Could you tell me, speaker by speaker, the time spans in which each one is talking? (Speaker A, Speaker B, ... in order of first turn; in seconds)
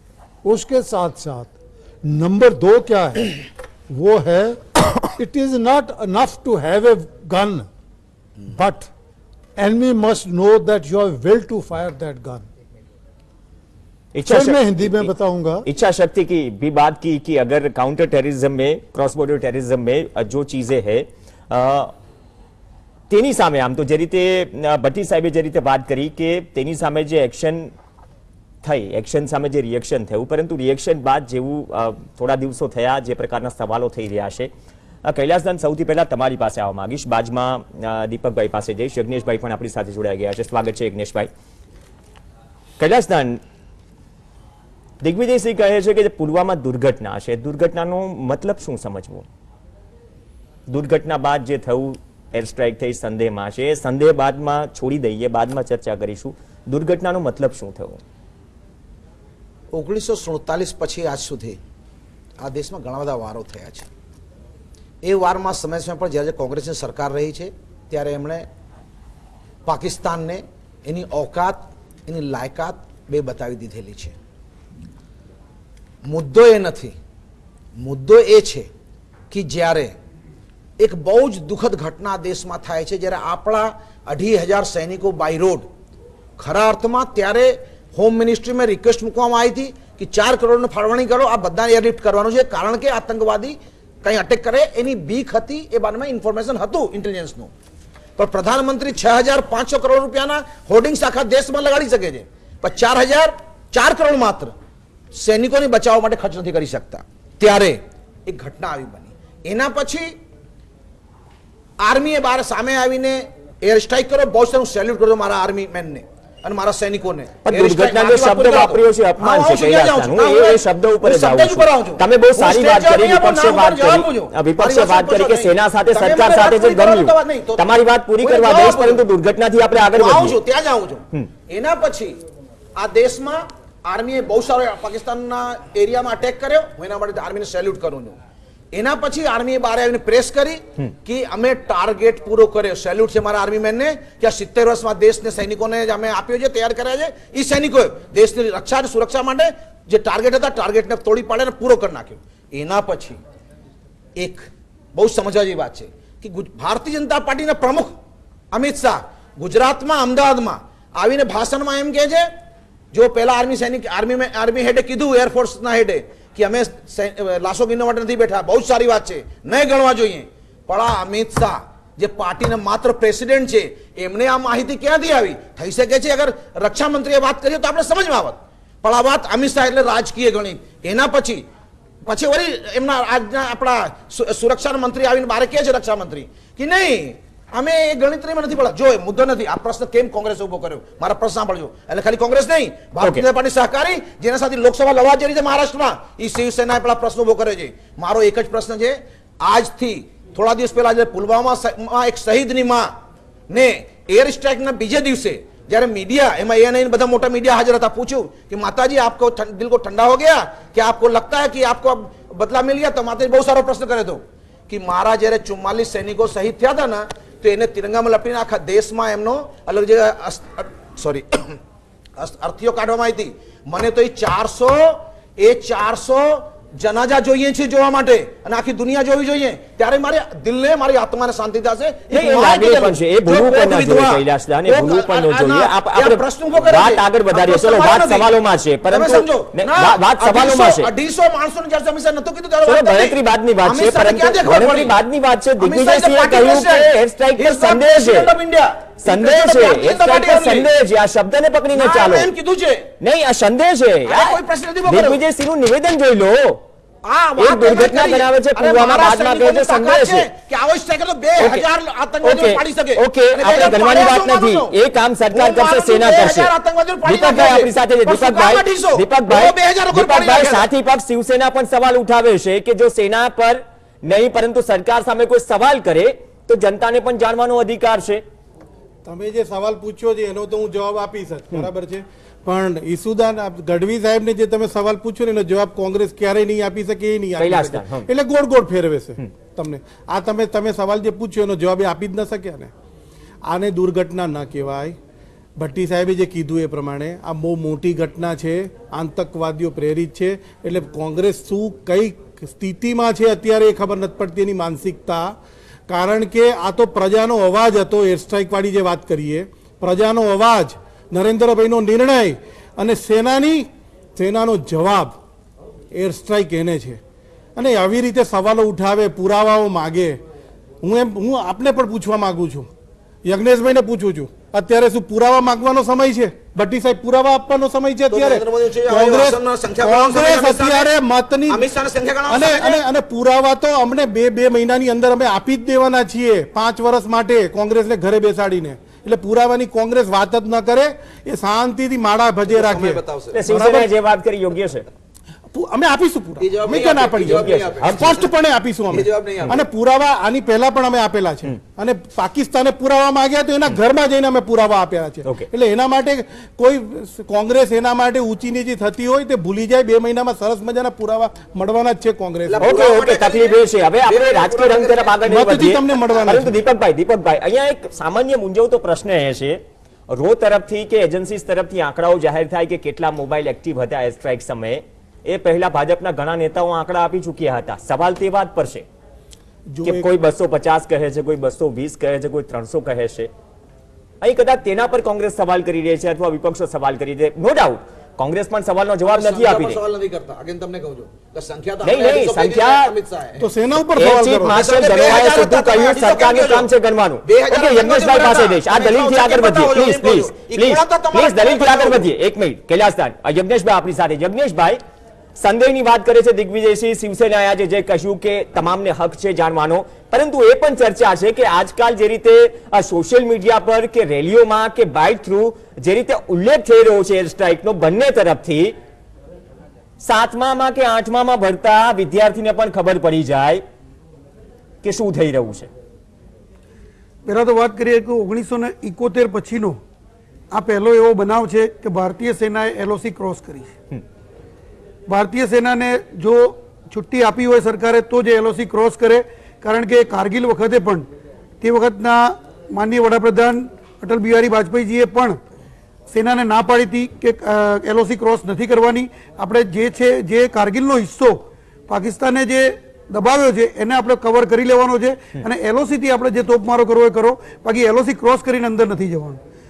Speaker A: 0.4-7.7, 8.5-8.9, 9.6-12.5, 14.2-15.7
Speaker B: 14.1-15.1, 15.7-21.9, 23.1-27.7, 28.6-34.5, 35.0-41.3, 42.8-43.4, 45.0-49.3, 50.7-58.0, 117.4-130.4, 232.1-240.9, 242.6-248.3, 249.0-252.3, 253.0-256.6, 257.4-260.3, 261.4-261.7, 262.2-266.5, 267.1-278.2, 287.4-288.1, 343.3-344.9, 347.2-348.1, 362.6-378.9, 379.8-383.3, 384.2-389.8, 391.8-392.9, 394.0-404.8, 405.4-418.8, 420.0-423.6, 424.8-425.7
Speaker C: 59.7-61.6, 62.4-63.9, 65.0-68.5, 69.7-74.2, 76.0-77.0, 77.8-78.7, 79.3-80.0, 80.8-85.7, 86.4-97.5, 98.2-104.5, 105.2-110.1, 111.8-129.0, 129.9-132.2, 132.8-138.2, 138.7-153.2, 154.2-154.4, 154.9-157.9, 158.5-162.3, 162.9-181.4, 182.1-202.9, 203.5-221.6, 222.2-238.3, 238.9-244.9, 245.6-250.7, 251.8-252.9, 254.1-255.2, 257.1-264.7, 265.3-270.7, 328.1-330.9, 331.5-332.8, 342.5-343.4, 346.4-348.3, 348.9-349.6, 362.5-365.2, 389.1-393.5, 394.5-396.7, 397.2-402.1
Speaker D: 279.1-292.7, 293.4-295.0, 295.6-305.4, 305.9-315.2, 315.9-317.0, 317.6-320.2, 320.8-322.7, 323.2-331.7, 332.3-343.9, 345.5-362.9, 365.3-366.6, 379.7-380.1, 393.4-394.6
Speaker E: 427.3-429.8, 430.5-433.7, 435.1-441.1, 441.6-445.4, 446.1-459.4